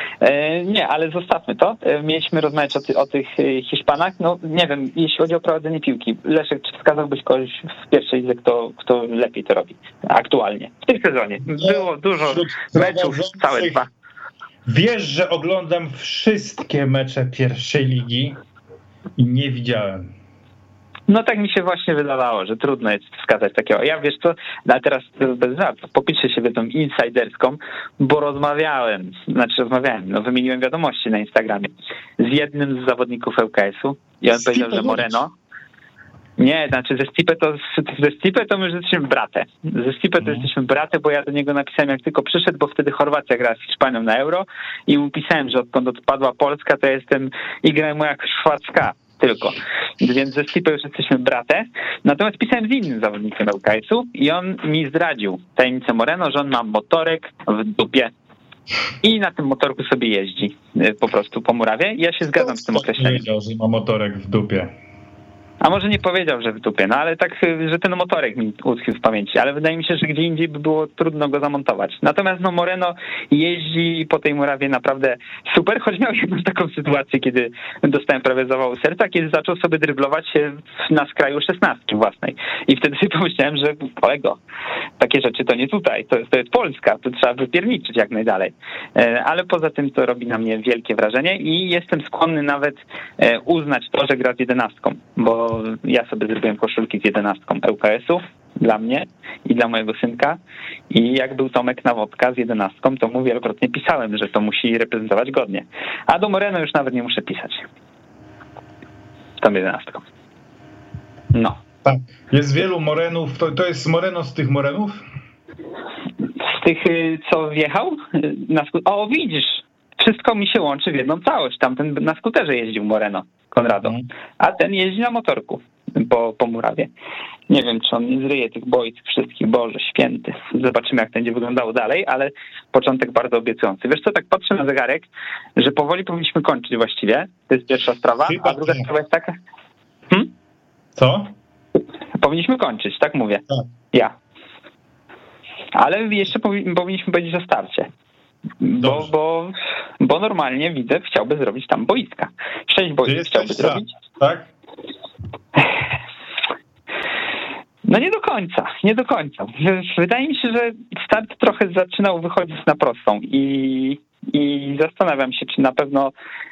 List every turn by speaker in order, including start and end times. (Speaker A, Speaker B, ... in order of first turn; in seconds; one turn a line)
Speaker A: 0.2-13.9
Speaker B: 11.5-13.8
Speaker B: 14.7-18.4
Speaker B: 19.2-20.1
Speaker A: 21.1-35.3
Speaker B: 34.3-35.2
Speaker A: 36.4-58.1
Speaker A: 59.0-63.2
Speaker B: 62.4-64.7
Speaker A: 65.6-84.4
Speaker A: 85.0-100.4
Speaker A: 100.9-107.7
Speaker A: 109.4-110.0
Speaker A: 111.3-111.6
Speaker B: 111.8-115.0
Speaker A: 116.4-126.9
Speaker A: 127.5-139.3
Speaker B: 138.2-138.9
Speaker B: 140.9-141.3
Speaker A: 142.2-144.1
Speaker A: 145.7-147.9
Speaker A: 148.6-153.9
Speaker B: 148.8-149.1
Speaker B: 153.0-154.5
Speaker A: 157.8-166.1